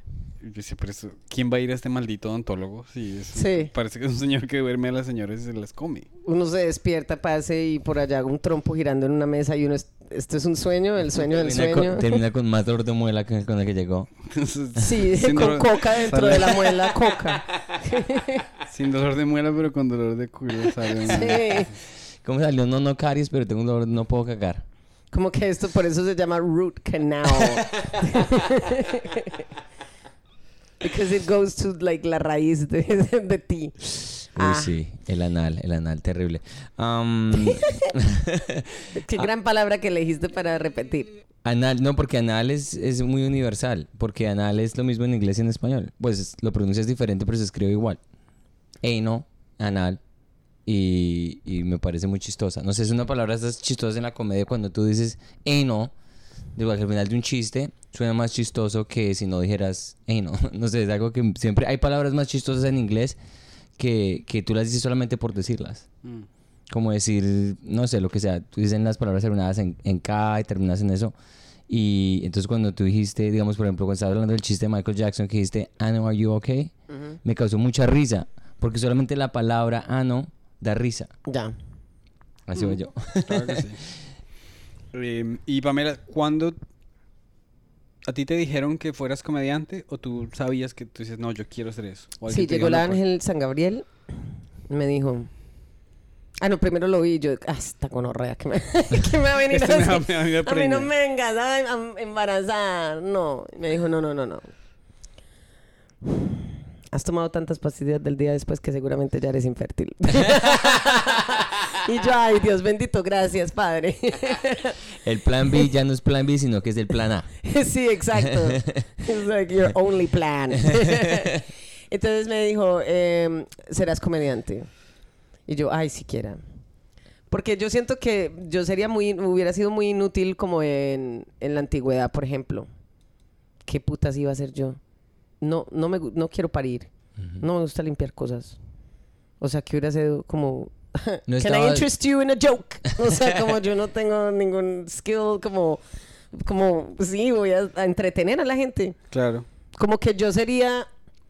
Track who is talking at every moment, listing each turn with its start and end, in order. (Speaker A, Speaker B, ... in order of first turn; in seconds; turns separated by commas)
Speaker A: 0.4-6.1, Speaker B: 3.4-3.7, Speaker B: 6.2-12.2, Speaker C: 11.4-14.1, Speaker A: 14.3-17.0, Speaker B: 14.8-18.4, Speaker A: 18.7-21.8, Speaker B: 21.1-21.7, Speaker C: 22.2-24.6, Speaker B: 25.1-29.4, Speaker C: 27.4-28.0, Speaker B: 30.8-34.7, Speaker C: 34.4-39.3, Speaker B: 37.4-37.9, Speaker B: 39.0-41.1, Speaker C: 41.4-48.0, Speaker C: 48.8-50.0, Speaker C: 50.7-55.9, Speaker C: 56.6-63.2, Speaker C: 63.8-65.9, Speaker C: 66.7-71.1, Speaker C: 71.7-76.7, Speaker B: 76.9-77.2, Speaker C: 77.2-81.1, Speaker B: 81.3-81.5, Speaker C: 82.5-83.7, Speaker A: 82.6-83.8, Speaker A: 84.9-86.6, Speaker A: 88.1-93.0, Speaker B: 92.3-93.9, Speaker B: 94.7-95.3, Speaker B: 96.4-104.5, Speaker A: 99.5-100.9, Speaker B: 106.9-114.8, Speaker C: 115.0-117.3, Speaker B: 117.4-121.4, Speaker C: 118.2-118.8, Speaker B: 121.9-124.7, Speaker B: 125.5-126.4, Speaker B: 127.3-132.7, Speaker B: 133.7-134.8, Speaker B: 135.4-138.6, Speaker B: 139.4-145.8, Speaker C: 141.3-141.8, Speaker B: 146.3-149.0, Speaker A: 149.1-149.5, Speaker B: 149.8-150.9